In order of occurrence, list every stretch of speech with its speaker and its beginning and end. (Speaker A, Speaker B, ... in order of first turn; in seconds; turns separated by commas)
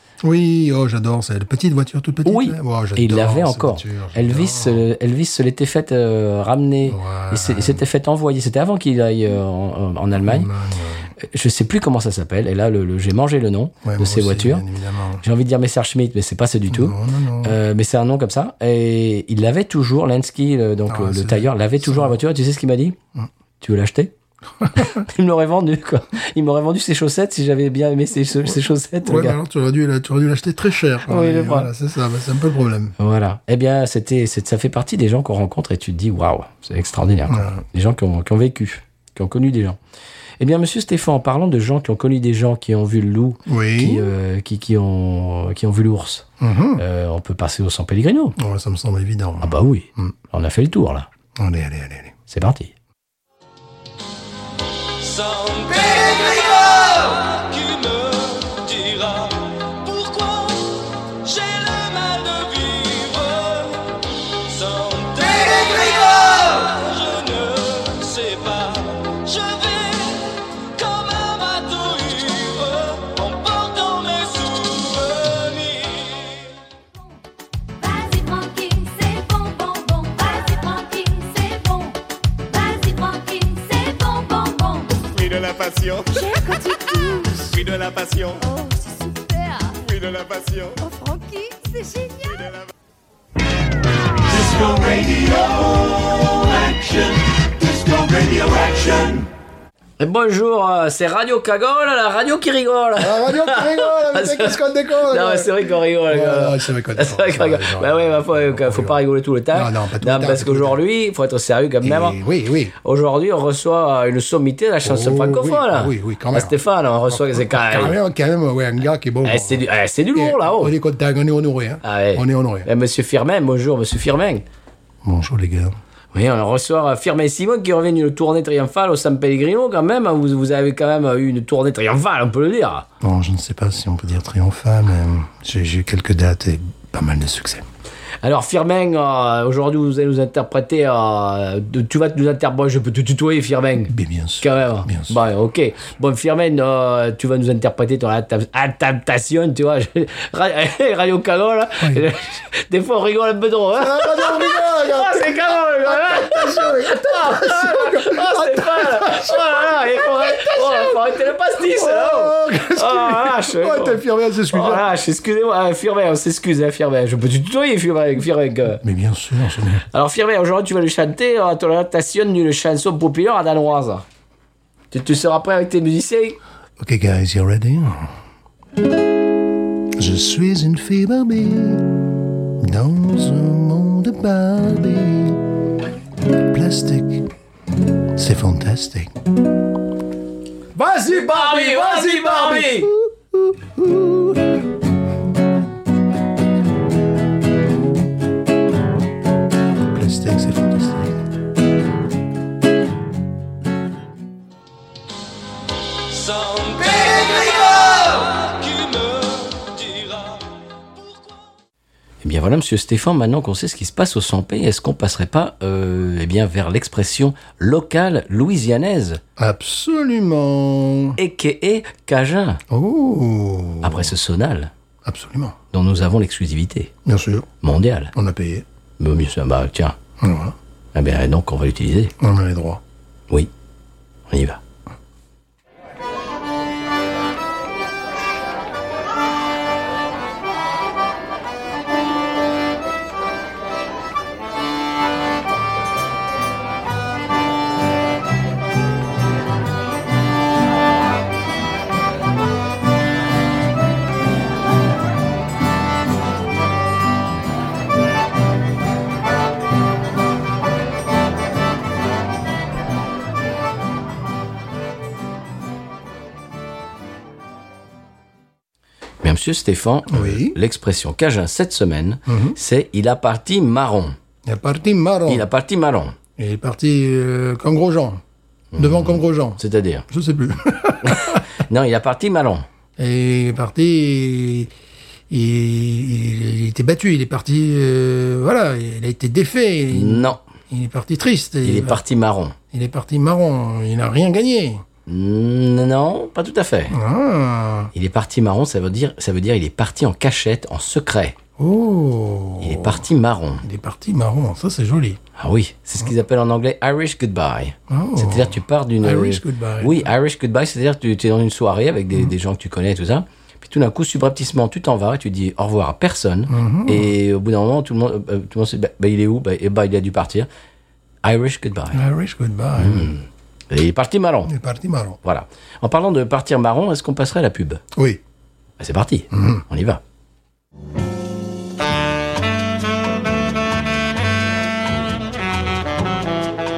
Speaker A: 0.2-4.8, Speaker B: 2.2-10.5, Speaker A: 6.8-7.8, Speaker A: 10.2-11.1, Speaker B: 11.2-14.6, Speaker A: 13.8-15.2, Speaker B: 15.2-23.0, Speaker A: 16.7-17.6, Speaker A: 20.9-22.1, Speaker B: 23.6-24.1, Speaker A: 24.6-25.0, Speaker B: 24.7-29.4, Speaker A: 29.0-32.9, Speaker B: 31.1-31.7, Speaker B: 33.0-39.8, Speaker A: 37.3-37.6, Speaker B: 40.4-48.4, Speaker A: 43.5-44.1, Speaker A: 46.4-46.8, Speaker A: 48.4-50.1, Speaker B: 49.4-51.1, Speaker A: 51.4-52.1, Speaker B: 52.3-52.7, Speaker C: 55.0-60.7, Speaker C: 61.2-64.0, Speaker C: 64.5-76.2, Speaker D: 77.8-85.0, Speaker E: 85.1-86.3, Speaker D: 86.1-87.5, Speaker E: 87.5-88.4, Speaker D: 88.4-89.8, Speaker E: 89.8-90.8, Speaker D: 90.8-92.4, Speaker E: 92.3-92.7, Speaker E: 94.4-97.1, Speaker E: 97.6-99.2, Speaker B: 100.0-112.2, Speaker A: 103.0-109.0, Speaker A: 109.5-110.8, Speaker A: 111.8-112.7, Speaker B: 112.8-118.0, Speaker A: 114.8-116.5, Speaker A: 117.1-122.7, Speaker B: 119.2-120.7, Speaker B: 121.8-124.4, Speaker A: 125.0-125.8, Speaker B: 126.1-132.9, Speaker A: 133.0-137.6, Speaker B: 138.2-168.8, Speaker A: 143.9-145.2, Speaker A: 151.8-152.0, Speaker A: 153.8-161.1, Speaker A: 161.7-164.9, Speaker A: 168.8-169.8, Speaker B: 169.9-174.0, Speaker B: 174.9-176.4, Speaker A: 176.8-178.1, Speaker A: 179.9-185.5, Speaker A: 186.3-187.3, Speaker A: 188.1-189.1, Speaker A: 190.8-194.6, Speaker B: 190.9-192.9, Speaker A: 199.8-201.2, Speaker C: 206.2-210.3, Speaker B: 212.2-219.2, Speaker A: 219.4-221.2, Speaker B: 221.2-222.6, Speaker A: 222.7-224.1, Speaker B: 223.8-224.7, Speaker A: 225.0-225.6, Speaker B: 225.7-226.9, Speaker A: 227.0-227.5, Speaker B: 227.6-228.1, Speaker A: 228.1-228.6, Speaker B: 229.0-230.0, Speaker A: 230.2-230.6, Speaker B: 230.9-232.1, Speaker A: 232.2-232.8, Speaker B: 234.3-234.6, Speaker B: 269.2-274.1, Speaker A: 270.1-270.6, Speaker A: 272.2-272.6, Speaker A: 274.4-275.4, Speaker B: 275.3-276.1, Speaker A: 276.4-278.2, Speaker B: 278.7-280.0, Speaker A: 278.8-281.4, Speaker B: 281.0-282.6, Speaker A: 283.0-284.7, Speaker A: 285.3-292.0, Speaker B: 289.9-290.4, Speaker B: 291.6-292.6, Speaker A: 292.7-294.8, Speaker B: 295.1-296.9, Speaker A: 296.9-297.9, Speaker B: 297.9-301.4, Speaker A: 301.6-303.0, Speaker B: 302.6-303.6, Speaker A: 303.6-305.2, Speaker B: 305.4-320.5, Speaker A: 307.9-310.1, Speaker A: 316.5-317.1, Speaker B: 321.2-322.0, Speaker A: 321.9-323.2, Speaker B: 322.8-324.5, Speaker A: 324.4-325.2, Speaker B: 325.2-327.8, Speaker A: 327.9-328.2, Speaker B: 328.8-330.0, Speaker A: 329.3-329.6